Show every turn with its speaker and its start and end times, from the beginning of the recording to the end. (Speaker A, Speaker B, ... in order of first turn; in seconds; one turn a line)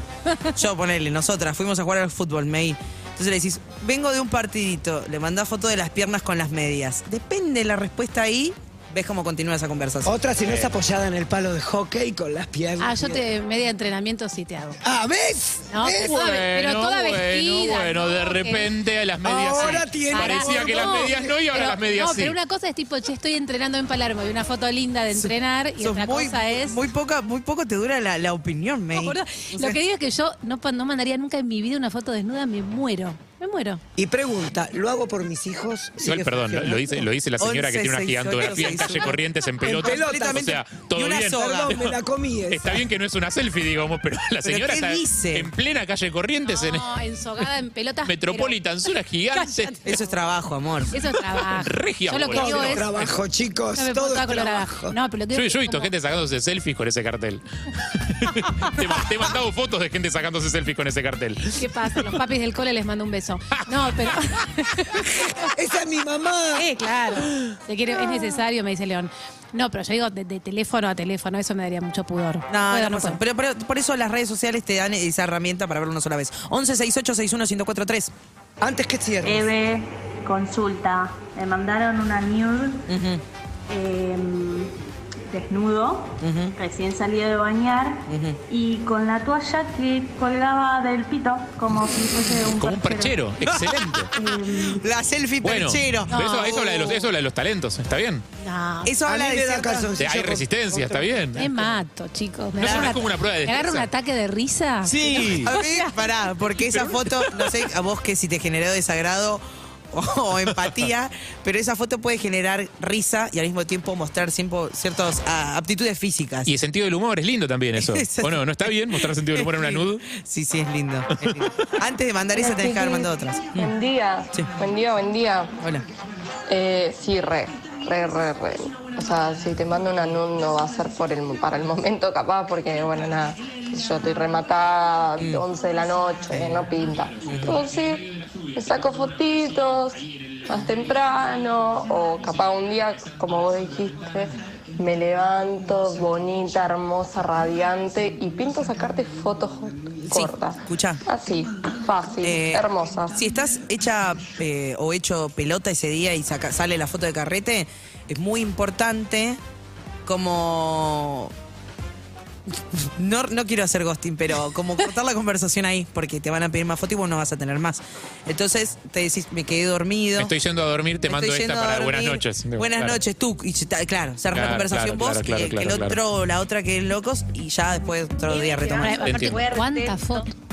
Speaker A: 0.5-10.1
Speaker B: 10.0-13.2
Speaker C: 10.4-10.7
Speaker D: 12.8-14.8
Speaker B: 14.8-16.3
Speaker D: 15.7-18.7
Speaker C: 16.0-22.4
Speaker B: 19.2-21.4
Speaker D: 19.5-26.8
Speaker A: 25.1-29.8
Speaker D: 28.9-33.8
Speaker B: 34.0-37.1
Speaker C: 36.0-41.4
Speaker A: 37.4-41.8
Speaker B: 39.6-40.5
Speaker B: 41.3-42.9
Speaker C: 42.5-46.9
Speaker A: 44.4-45.5
Speaker D: 46.4-50.2
Speaker C: 47.4-49.8
Speaker A: 49.8-50.9
Speaker D: 50.9-53.0
Speaker C: 51.0-53.0
Speaker B: 52.3-55.0
Speaker D: 53.7-55.9
Speaker C: 55.3-62.2
Speaker D: 61.5-65.5
Speaker C: 63.6-64.1
Speaker B: 65.5-66.7
Speaker D: 66.5-73.2
Speaker A: 72.5-78.1
Speaker B: 78.6-79.5
Speaker E: 79.2-82.8
Speaker A: 82.9-83.2
Speaker E: 83.7-84.7
Speaker E: 85.3-94.8
Speaker A: 86.2-86.5
Speaker A: 88.1-88.4
Speaker C: 92.6-94.1
Speaker A: 93.5-97.1
Speaker C: 95.4-98.2
Speaker D: 96.1-96.6
Speaker D: 98.4-98.9
Speaker A: 98.8-99.9
Speaker B: 99.0-101.4
Speaker C: 100.0-101.7
Speaker D: 101.3-105.9
Speaker C: 102.6-103.9
Speaker A: 102.6-102.9
Speaker A: 104.8-116.5
Speaker C: 105.3-105.5
Speaker C: 106.7-107.5
Speaker C: 116.5-120.0
Speaker A: 117.8-123.7
Speaker F: 122.3-125.5
Speaker F: 126.5-153.2
Speaker C: 137.2-137.9
Speaker A: 137.3-137.6
Speaker C: 139.3-139.7
Speaker C: 142.9-143.2
Speaker A: 150.1-151.0
Speaker A: 152.2-159.4
Speaker A: 160.1-161.3
Speaker A: 163.0-170.3
Speaker C: 170.2-173.0
Speaker A: 171.1-179.1
Speaker C: 174.3-176.0
Speaker E: 178.2-180.3
Speaker D: 178.8-180.2
Speaker C: 179.1-179.4